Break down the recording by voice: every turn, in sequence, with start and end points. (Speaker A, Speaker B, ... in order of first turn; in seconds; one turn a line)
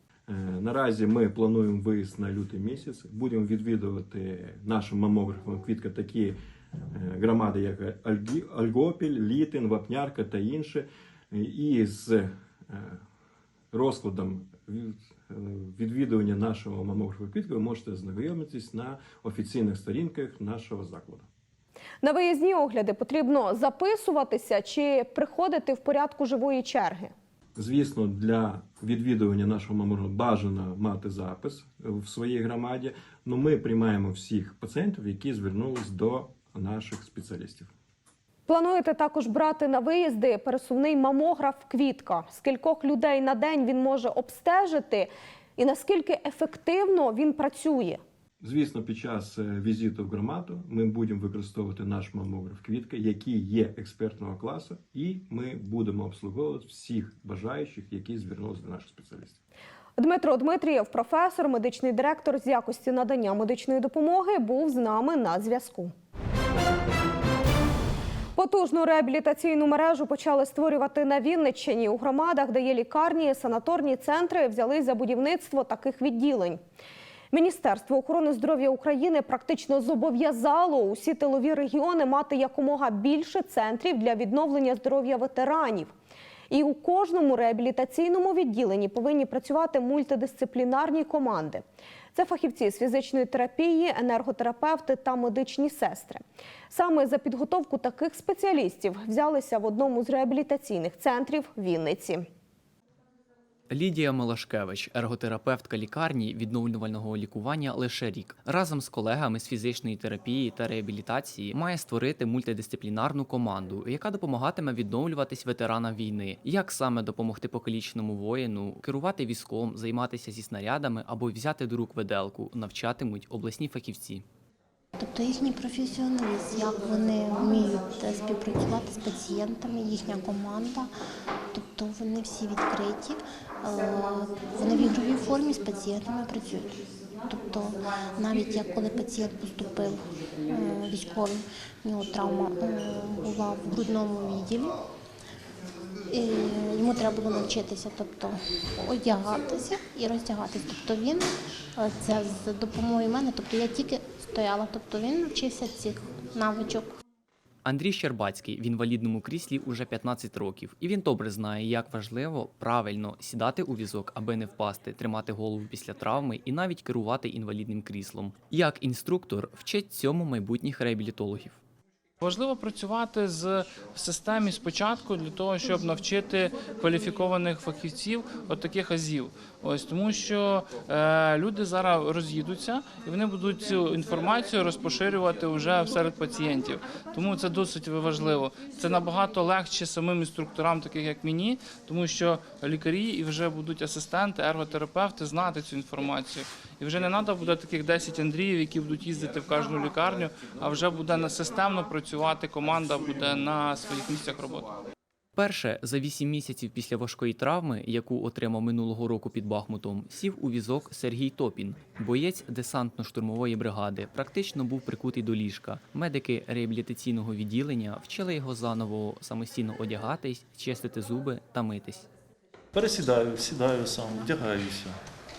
Speaker A: 0.3-6.4
Speaker A: 6.9-13.0
Speaker A: 13.7-21.3
Speaker B: 22.0-27.1
Speaker A: 27.6-37.7
Speaker B: 38.5-48.0
Speaker A: 48.4-59.4
Speaker B: 60.0-65.9
Speaker B: 68.3-76.6
Speaker B: 77.3-85.9
Speaker B: 86.5-102.3
Speaker C: 103.7-124.2
Speaker D: 125.0-130.9
Speaker D: 131.5-144.8
Speaker D: 146.1-157.0
Speaker C: 157.7-171.6
Speaker E: 172.2-204.7
Speaker C: 205.3-222.1
Speaker F: 222.7-225.0